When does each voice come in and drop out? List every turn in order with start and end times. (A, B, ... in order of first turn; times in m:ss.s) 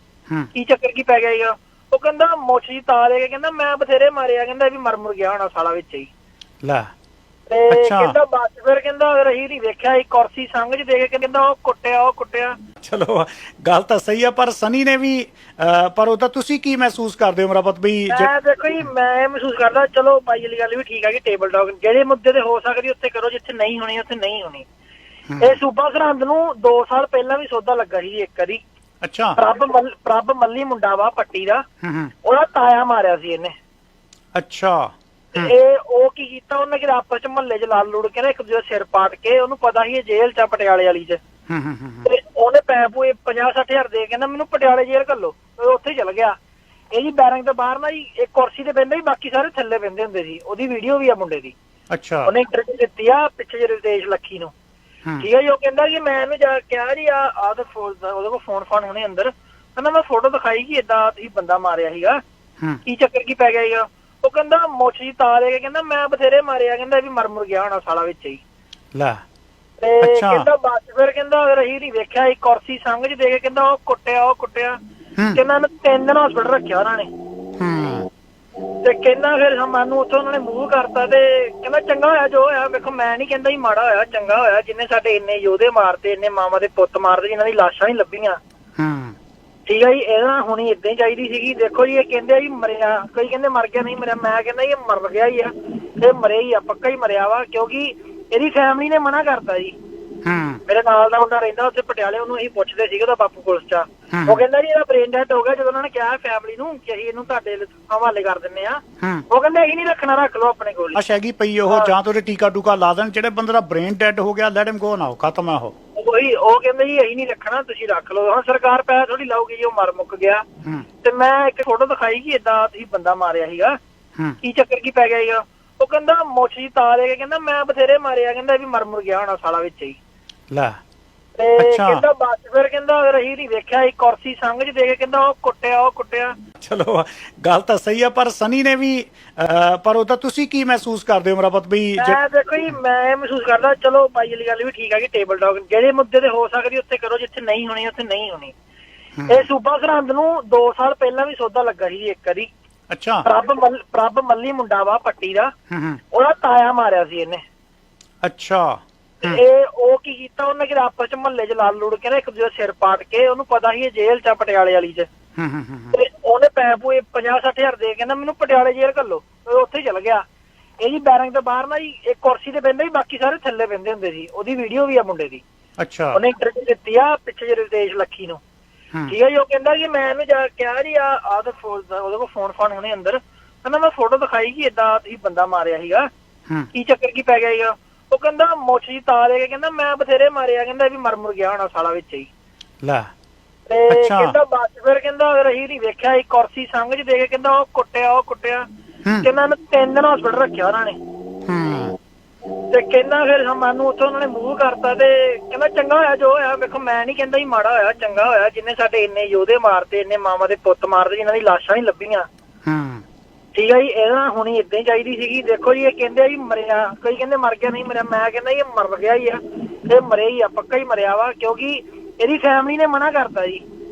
0:00.5-0:06.1 A
0:07.5-0:12.5 A
0:07.7-0:08.2 B
0:12.8-0:18.3 B
0:18.1-0:24.6 A
0:25.3-0:25.6 B
0:25.4-0:28.6 A
0:29.0-0:29.4 B
0:29.4-0:31.6 A
0:31.8-0:32.1 B
0:32.2-0:33.5 A
0:34.3-0:35.5 B
0:35.4-0:41.2 A
0:41.5-0:42.1 B
0:42.0-0:46.3 A
0:46.9-0:51.5 A
0:51.9-0:52.3 B
0:52.3-0:54.5 A
0:55.2-1:02.2 A
1:02.8-1:08.4 A
1:08.9-1:09.2 B
1:09.8-1:14.8 A
1:10.0-1:10.5 B
1:15.3-1:17.1 A
1:17.6-1:18.1 B
1:18.8-1:28.4 A
1:28.8-1:29.2 B
1:29.6-1:39.7 A
1:40.2-1:40.6 B
1:40.7-1:51.0 A
1:44.1-1:44.4 B
1:50.9-1:55.7 B
1:56.0-2:00.4 A
2:01.0-2:03.8 A
2:04.4-2:10.0 A
2:10.5-2:10.8 B
2:11.4-2:16.3 A
2:11.6-2:12.0 B
2:16.6-2:22.2 B
2:22.0-2:28.5 A
2:29.2-2:29.4 B
2:29.3-2:32.5 A
2:32.9-2:33.2 B
2:33.2-2:35.5 A
2:35.7-2:36.0 B
2:36.1-2:37.4 A
2:38.2-2:39.4 B
2:39.2-2:45.1 A
2:45.4-2:46.0 B
2:45.9-2:50.2 A
2:50.8-2:55.4 A
2:55.8-2:56.2 B
2:56.1-2:58.4 A
2:59.1-3:06.1 A
3:06.7-3:12.3 A
3:12.8-3:13.1 B
3:13.7-3:18.6 A
3:13.9-3:14.4 B
3:19.2-3:21.0 A
3:21.5-3:22.0 B
3:22.7-3:32.3 A
3:32.6-3:33.0 B
3:33.5-3:43.6 A